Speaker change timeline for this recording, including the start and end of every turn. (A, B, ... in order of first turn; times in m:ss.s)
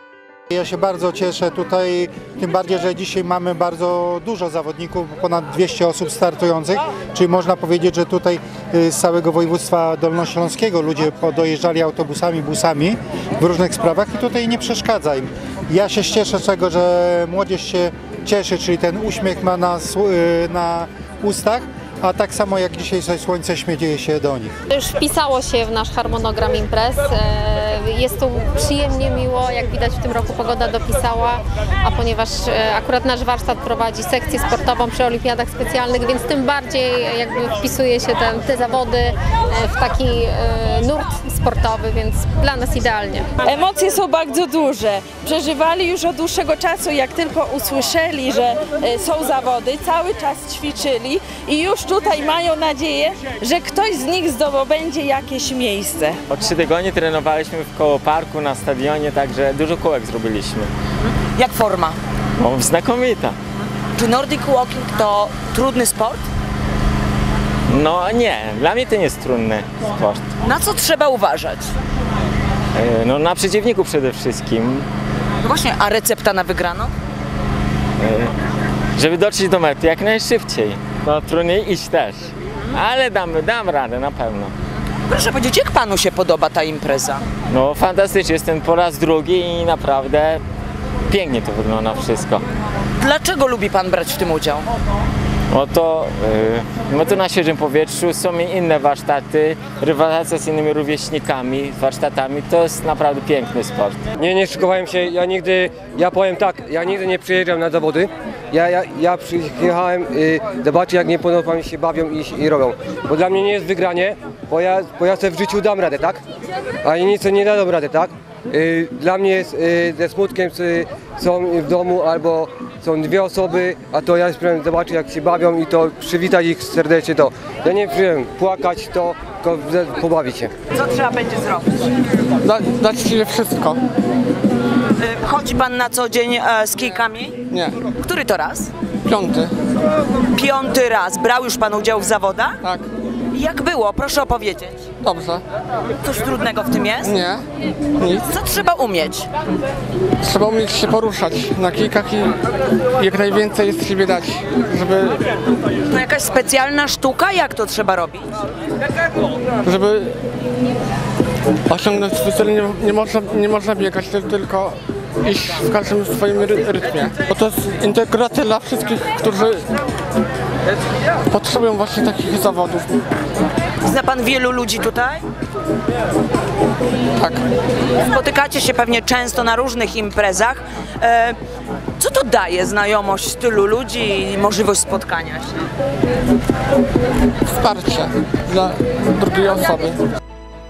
0:00.5-0:24.5 A
0:24.7-0:43.3 B
0:43.4-0:56.2 C
0:56.3-1:00.7 D
1:01.4-1:02.0 E
1:02.4-1:03.4 D
1:04.0-1:06.2 E
1:07.7-1:10.3 D
1:10.4-1:11.7 E
1:12.8-1:14.9 D
1:15.4-1:16.9 E
1:18.0-1:18.3 D
1:19.0-1:24.5 D
1:25.1-1:27.2 E
1:27.5-1:30.4 D
1:31.1-1:32.4 D
1:33.0-1:34.7 E
1:35.5-1:44.0 D
1:44.2-1:56.2 F
1:56.8-2:10.5 F
2:10.8-2:11.7 E
2:12.4-2:13.8 G
2:15.0-2:17.4 E
2:17.5-2:17.8 G
2:18.0-2:18.7 E
2:19.1-2:19.5 G
2:20.3-2:22.6 E
2:23.3-2:24.8 E
2:25.0-2:25.4 G
2:26.0-2:27.1 E
2:27.0-2:27.4 G
2:28.3-2:29.3 E
2:30.2-2:32.3 G
2:33.0-2:35.2 G
2:35.9-2:38.3 E
2:39.6-2:40.1 G
2:41.7-2:49.7 G
2:51.3-2:52.9 G
2:53.8-2:55.2 E
2:58.0-3:01.4 E
3:02.0-3:05.6 E
3:07.5-3:10.0 G